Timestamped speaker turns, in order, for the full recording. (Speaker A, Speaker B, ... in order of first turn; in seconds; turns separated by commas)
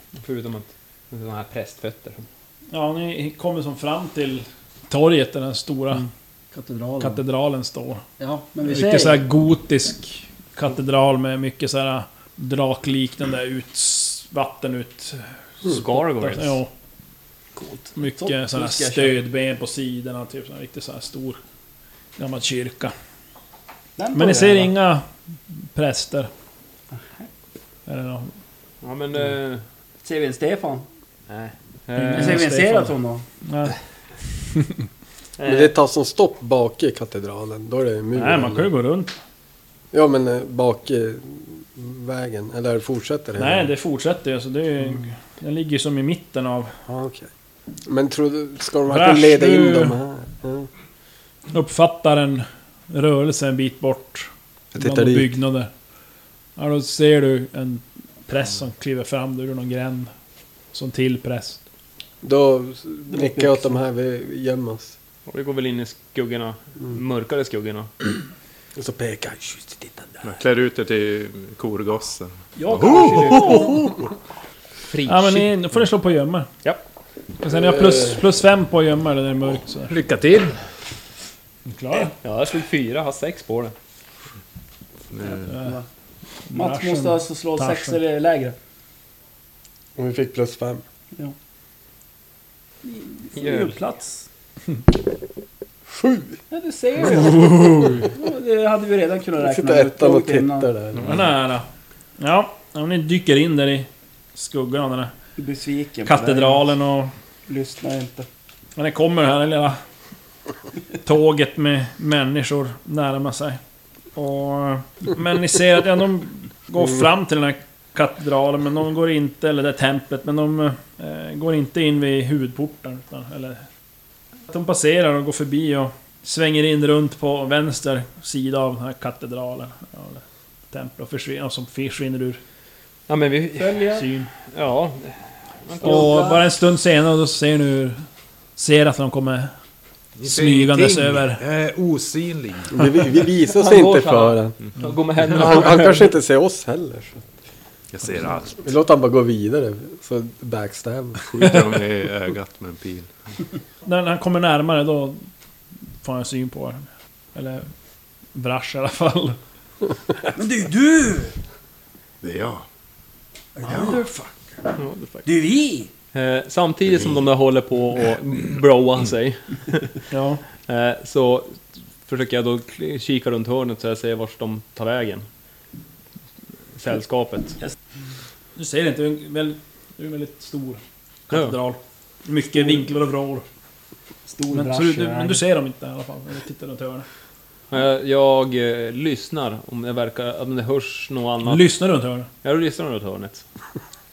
Speaker A: 0.1-2.2, Speaker B: 2.7-6.1, Speaker C: 6.5-7.2, Speaker B: 7.0-8.0, Speaker C: 8.2-9.2, Speaker B: 8.6-16.7, Speaker A: 15.6-16.6, Speaker C: 17.6-19.2, Speaker B: 17.9-21.4, Speaker B: 22.2-22.9, Speaker C: 24.0-24.7, Speaker B: 24.1-26.3, Speaker C: 26.9-27.3, Speaker B: 27.9-28.3, Speaker A: 28.8-29.6, Speaker C: 30.0-30.9, Speaker A: 31.3-32.5, Speaker B: 31.9-33.8, Speaker C: 32.1-33.2, Speaker A: 35.4-35.7, Speaker D: 35.4-38.7, Speaker B: 38.1-39.2, Speaker D: 39.9-43.7, Speaker B: 43.4-46.7, Speaker D: 46.9-47.3, Speaker D: 47.9-50.7, Speaker B: 48.9-50.0, Speaker B: 51.5-55.7, Speaker D: 54.7-55.3, Speaker B: 56.5-60.1, Speaker B: 60.7-61.6, Speaker D: 62.2-64.9, Speaker C: 63.1-63.8, Speaker A: 65.3-67.9, Speaker D: 68.8-70.2, Speaker E: 70.2-73.8, Speaker C: 72.6-73.9, Speaker A: 74.9-75.5, Speaker B: 75.0-76.5, Speaker B: 77.4-79.9, Speaker E: 79.9-80.6, Speaker B: 81.7-82.1, Speaker A: 82.1-83.7, Speaker E: 85.1-85.5, Speaker C: 85.3-85.8, Speaker B: 85.5-85.8, Speaker B: 86.5-88.0, Speaker C: 86.5-88.5, Speaker D: 90.0-90.8, Speaker C: 92.8-94.2, Speaker A: 93.3-93.8, Speaker D: 95.9-96.4, Speaker C: 96.5-100.7, Speaker B: 97.3-97.9, Speaker D: 99.4-101.0, Speaker E: 100.9-101.3, Speaker B: 101.0-101.7, Speaker B: 102.2-105.1, Speaker C: 105.4-106.7, Speaker B: 106.0-107.1, Speaker C: 107.5-108.3, Speaker B: 108.8-109.8, Speaker B: 111.0-113.6, Speaker B: 114.1-123.6, Speaker B: 124.5-132.4, Speaker A: 133.1-133.9, Speaker C: 133.6-134.0, Speaker B: 133.9-134.3, Speaker A: 134.5-136.3, Speaker C: 135.8-136.4, Speaker B: 135.8-138.0, Speaker B: 138.6-139.5, Speaker E: 140.2-142.8, Speaker B: 140.2-141.4, Speaker D: 142.7-144.6, Speaker A: 143.5-146.1, Speaker D: 145.3-147.2, Speaker E: 147.9-148.7, Speaker D: 148.6-151.5, Speaker E: 151.2-153.1, Speaker B: 153.8-155.2, Speaker B: 156.0-157.7, Speaker B: 158.3-159.4, Speaker C: 160.3-161.3, Speaker E: 162.2-162.7, Speaker C: 163.6-164.2, Speaker A: 164.8-165.3, Speaker C: 165.2-165.9, Speaker A: 166.1-170.0, Speaker E: 166.9-167.2, Speaker B: 170.1-170.4, Speaker A: 170.6-175.2, Speaker A: 176.8-177.6, Speaker B: 178.6-183.4, Speaker A: 181.3-181.6, Speaker C: 184.3-185.4, Speaker B: 184.5-187.1, Speaker A: 187.7-191.7, Speaker B: 191.4-192.3, Speaker A: 192.4-193.4